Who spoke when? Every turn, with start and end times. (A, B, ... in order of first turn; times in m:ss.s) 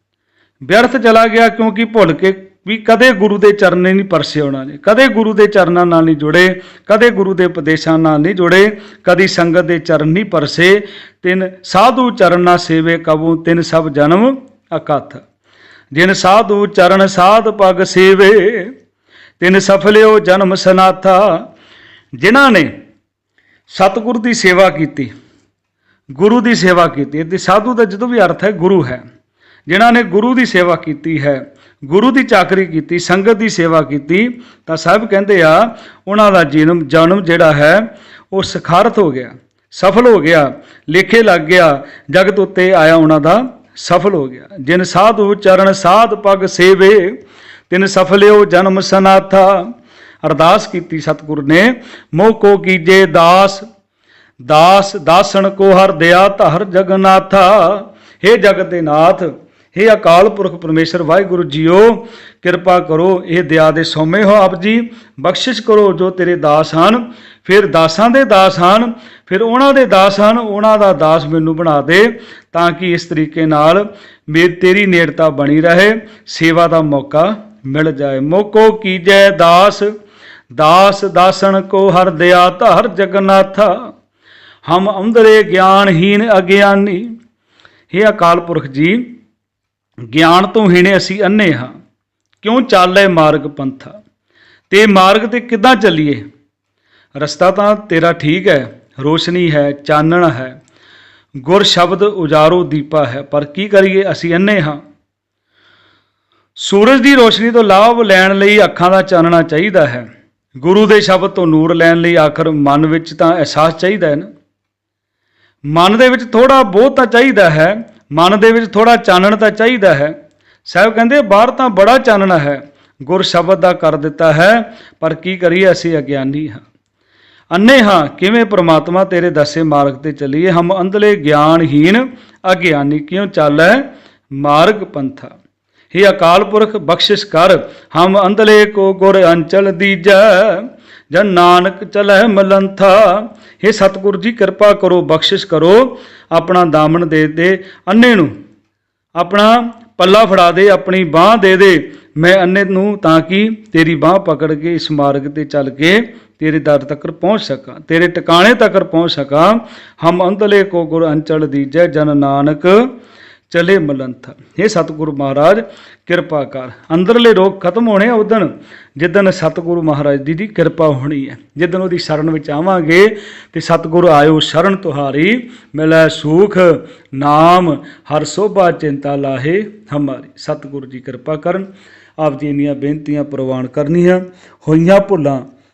0:00.6-0:15.2 A
0:15.9-0:18.7 A
0:19.4-0:21.4 A
0:22.2-0:22.7 A
0:23.7-0:25.1 A
0:26.1-0:29.0 A
0:29.6-0:47.2 A
0:47.7-0:49.6 A
0:50.2-0:53.6 A
0:54.4-1:19.9 A
1:20.5-1:23.9 A
1:24.6-1:27.1 A
1:27.9-1:29.1 A
1:30.1-1:31.7 A
1:32.4-1:34.0 A
1:34.7-1:36.2 A
1:37.2-1:40.6 A
1:41.4-1:44.8 A
1:46.6-1:50.1 A
1:50.6-1:54.3 A
1:55.7-2:06.6 A
2:07.5-2:13.8 A
2:14.4-2:15.3 A
2:15.9-2:28.3 A
2:29.2-2:42.9 A
2:43.5-3:01.7 A
3:02.2-3:05.4 A